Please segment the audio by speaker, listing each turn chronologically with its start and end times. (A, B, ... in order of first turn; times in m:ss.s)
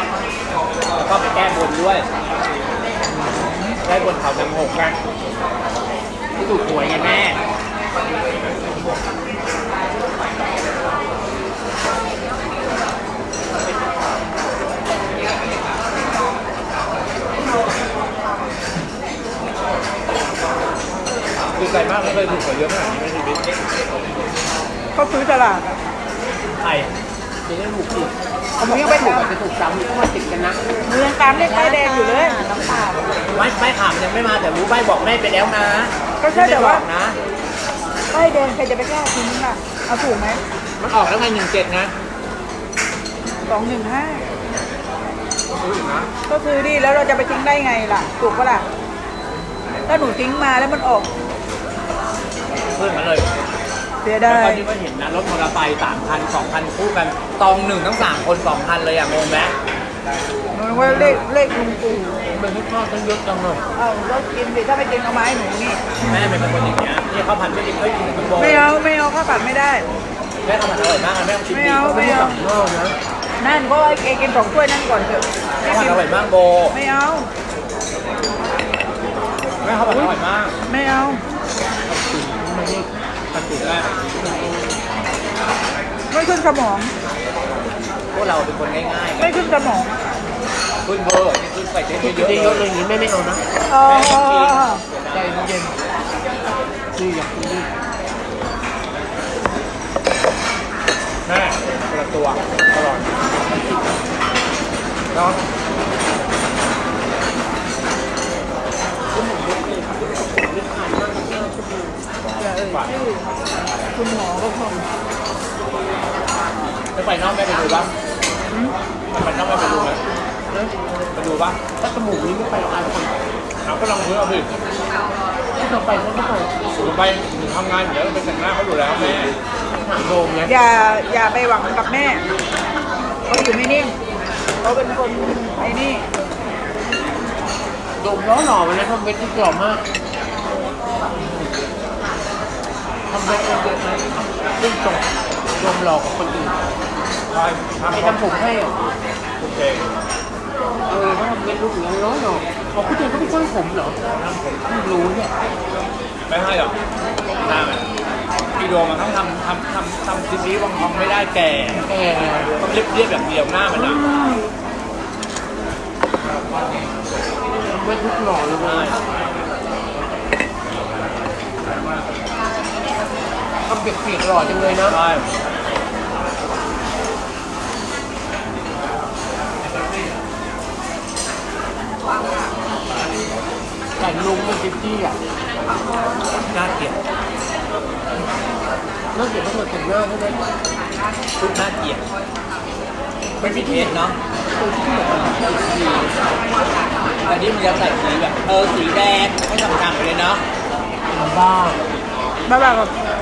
0:01.0-0:02.1 A
0:03.1-0:03.8 B
0:03.8-0:05.0 A
0:06.4-0:07.0 B
0:06.8-0:07.4 A
0:21.6-0:23.5 A
0:24.9-0:25.7 C
0:26.6-0:26.9 A
0:27.5-0:30.6 B
0:28.6-0:29.4 C
0:30.8-0:32.4 C
0:31.4-0:33.4 B
0:33.3-0:37.2 A
0:36.2-0:36.8 C
0:38.1-0:40.4 C
0:40.8-0:41.9 A
0:43.4-0:44.2 C
0:45.6-0:46.1 A
0:46.3-0:48.7 C
0:49.9-0:51.1 C
0:52.5-0:53.3 A
0:54.0-0:54.6 C
0:54.3-0:59.6 A
1:00.5-1:02.2 C
1:00.7-1:01.2 B
1:02.3-1:03.6 B
1:03.8-1:05.9 C
1:06.0-1:08.7 A
1:08.4-1:09.8 C
1:10.4-1:12.4 A
1:11.5-1:12.4 C
1:11.9-1:13.0 B
1:13.4-1:16.0 C
1:15.6-1:16.7 A
1:16.7-1:17.3 C
1:19.6-1:20.6 A
1:20.7-1:21.2 C
1:21.9-1:24.8 B
1:23.6-1:23.9 A
1:26.1-1:26.9 C
1:28.1-1:29.4 A
1:29.2-1:29.9 C
1:30.8-1:32.7 A
1:32.0-1:33.4 B
1:33.7-1:34.8 C
1:33.8-1:35.5 A
1:35.1-1:35.8 B
1:36.9-1:37.7 B
1:41.3-1:43.1 A
1:45.1-1:45.4 A
1:49.1-1:52.0 B
1:52.4-1:53.3 C
1:53.9-1:54.8 C
1:57.0-1:57.9 A
1:59.1-2:00.0 A
2:00.5-2:00.8 B
2:01.2-2:01.6 A
2:01.8-2:03.2 B
2:03.6-2:04.5 A
2:05.6-2:06.5 B
2:06.8-2:09.3 A
2:09.7-2:10.5 B
2:10.4-2:12.2 C
2:13.3-2:13.9 C
2:14.6-2:16.0 C
2:18.0-2:19.8 B
2:23.1-2:25.0 B
2:25.6-2:26.6 B
2:27.3-2:28.2 A
2:27.9-2:28.7 B
2:29.4-2:29.8 A
2:30.9-2:34.0 B
2:34.1-2:34.6 A
2:34.7-2:35.3 B
2:36.3-2:36.8 A
2:37.4-2:37.8 A
2:38.6-2:41.9 A
2:41.8-2:42.5 B
2:42.6-2:44.0 A
2:43.7-2:44.4 B
2:47.7-2:49.0 B
2:48.6-2:49.0 A
2:53.7-2:55.0 B
2:54.9-2:55.3 A
3:04.0-3:05.2 B
3:06.5-3:07.0 A
3:09.2-3:10.4 B
3:11.4-3:12.0 A
3:13.4-3:14.2 A
3:13.4-3:14.0 B
3:14.6-3:16.2 B
3:17.2-3:20.4 A
3:21.1-3:21.8 B
3:22.5-3:22.9 C